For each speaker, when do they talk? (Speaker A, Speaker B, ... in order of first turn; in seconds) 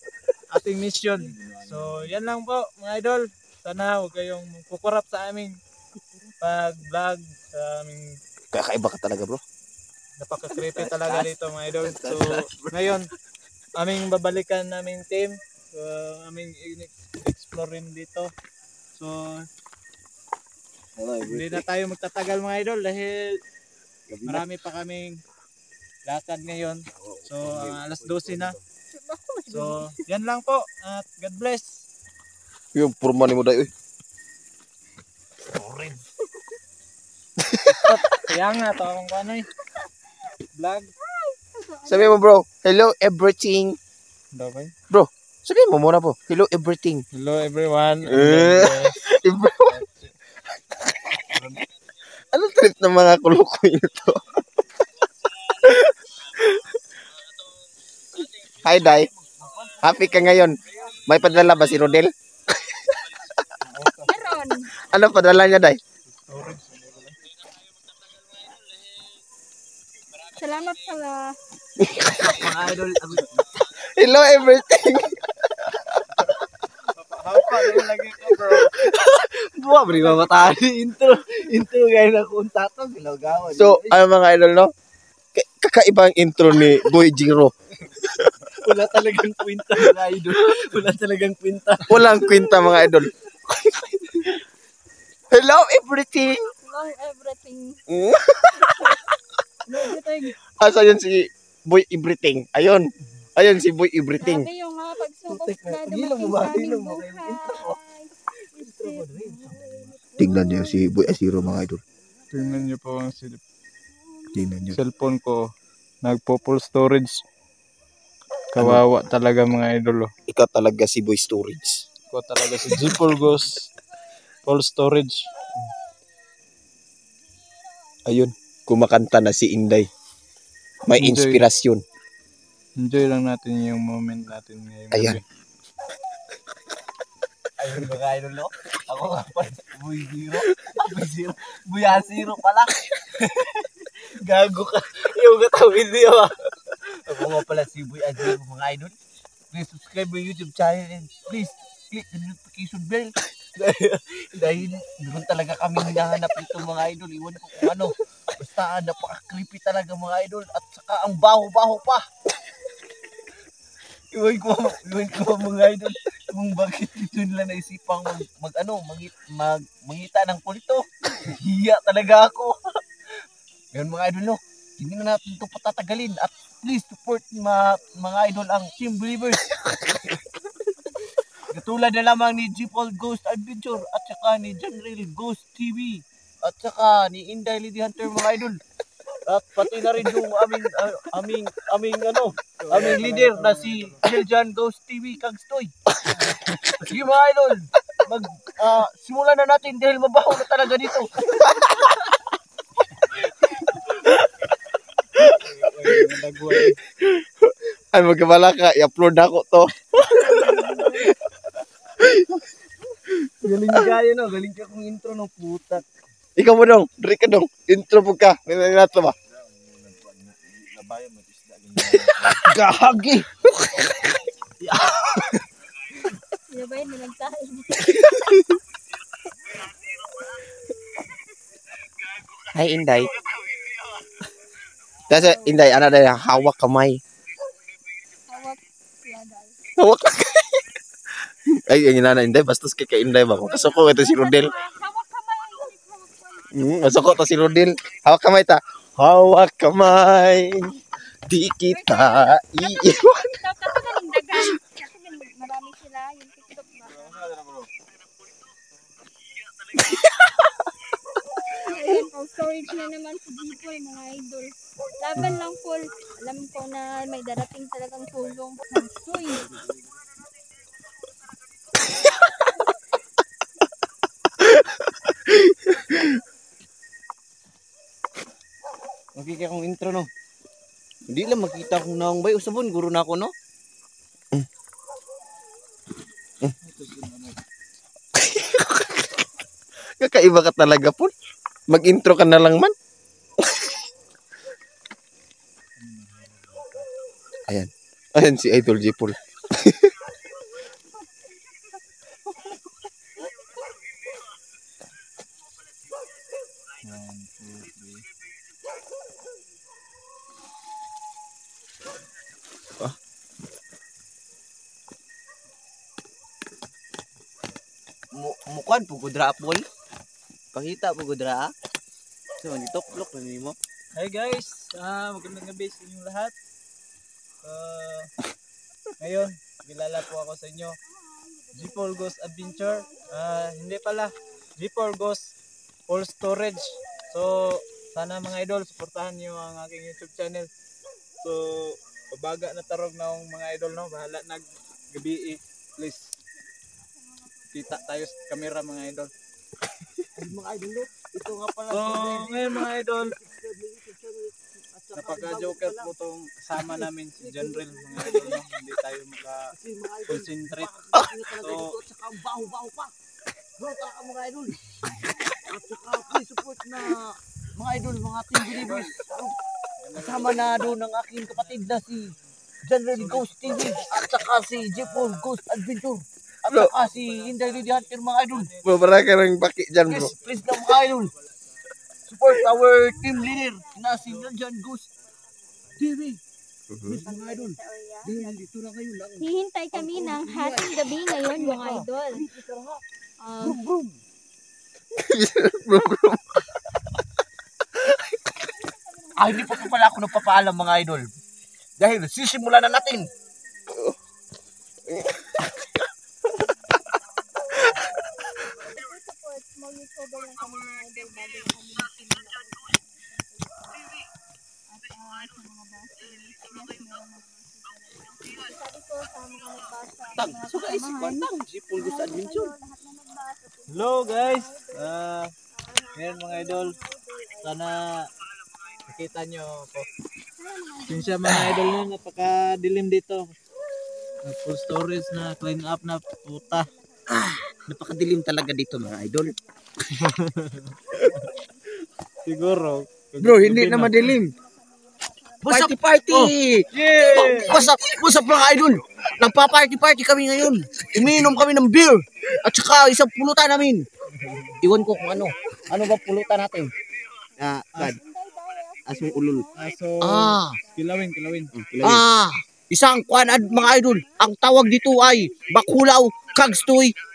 Speaker A: 0.5-5.6, 6.4-8.1, 10.2-13.1, 13.8-18.3, 19.0-19.4, 21.2-23.4, 24.3-25.2, 26.1-28.6, 29.5-31.9, 37.7-39.5, 40.5-40.9, 44.3-44.7, 47.1-49.0, 49.7-50.0, 63.4-64.4, 66.3-67.2, 76.9-78.8, 79.9-80.5, 112.3-113.4, 114.7-115.5, 116.0-117.2, 118.5-120.1, 122.1-123.7, 124.5-125.3, 130.9-131.4, 132.8-135.2, 192.6-194.0, 196.2-196.8, 205.2-206.8, 257.0-257.6, 286.6-287.4, 295.8-296.8, 306.8-308.0, 323.9-326.3, 327.4-328.1, 329.0-330.8, 331.5-335.3, 335.9-340.5, 341.2-346.1, 347.5-349.1, 351.7-353.1, 354.9-359.5, 360.1-360.7, 361.3-361.8, 368.6-369.1, 369.8-372.3, 372.9-375.4, 376.5-379.1, 379.9-381.8, 383.9-385.9, 423.7-425.3, 426.0-426.8, 427.4-428.1, 428.9-429.9, 430.9-433.3, 434.2-436.7, 439.8-441.3, 442.2-444.2, 446.1-447.6, 454.1-454.6, 459.6-461.5
Speaker B: 8.5-9.4, 10.7-11.3, 11.8-13.0, 21.0-21.6, 24.1-24.4, 27.5-28.6, 32.7-33.7, 37.4-37.9, 41.9-43.8, 44.9-47.0, 48.1-49.8, 50.9-51.5, 52.3-54.4, 55.4-56.6, 58.4-59.1, 59.8-62.1, 62.7-63.0, 64.9-65.8, 71.8-72.2, 73.8-76.3, 83.5-84.7, 85.3-87.5, 88.0-88.3, 91.9-93.1, 95.3-96.5, 97.9-98.9, 100.6-104.5, 110.2-111.8, 114.3-114.8, 118.6-118.8, 120.3-121.8, 128.1-129.9, 130.9-131.8, 134.9-135.2, 207.0-210.6, 212.0-212.4, 216.4-219.2, 220.1-222.0, 232.4-233.6, 235.1-237.0, 239.8-240.6, 241.7-244.5, 246.5-250.8, 251.3-253.8, 259.6-260.5, 274.4-276.1, 288.2-289.1, 290.0-291.1, 291.7-292.7, 293.4-293.8, 297.5-299.9, 378.6-380.1, 386.7-387.0, 395.0-396.5, 405.1-405.4, 437.9-438.9, 443.7-444.3, 445.5-446.2, 461.5-462.1
Speaker C: 28.9-30.0, 41.0-42.2, 64.1-64.7, 70.3-71.3, 96.6-97.8, 98.6-99.0, 99.7-100.4, 104.2-110.9, 210.2-211.1, 226.5-228.0, 235.1-235.6, 238.3-239.5, 243.4-246.5, 251.7-257.4, 261.5-269.5, 332.1-333.1, 347.2-348.8, 382.4-385.8, 386.9-388.4, 389.2-392.2, 393.2-393.6, 398.4-399.8, 402.7-403.9, 404.9-405.6, 406.3-414.0, 414.7-425.0, 425.5-427.7, 430.4-431.5, 436.3-440.0, 441.0-441.7, 444.0-445.6, 446.5-447.8, 454.4-456.1, 457.4-461.4, 462.8-466.6
Speaker D: 72.1-73.5, 78.4-84.0, 88.6-92.9, 105.3-107.8, 108.5-110.0, 137.6-148.9, 149.5-162.0, 164.1-172.6, 173.7-179.8, 181.5-188.6, 189.3-195.7, 196.8-201.6, 213.4-215.8, 221.9-223.9, 279.2-280.1, 281.1-283.3, 318.1-319.6, 320.5-321.5, 322.4-323.6, 350.2-355.9, 356.6-358.4, 359.5-362.9, 363.6-369.4, 370.0-372.1, 372.6-378.5, 379.9-381.1, 382.1-384.9, 385.8-386.2, 386.9-392.8, 393.4-394.0, 399.2-401.1, 401.8-403.1, 420.2-422.6, 437.1-439.3, 443.2-444.2, 445.4-453.9, 454.6-456.7, 457.4-458.0, 458.9-459.5, 460.0-460.6, 461.8-466.9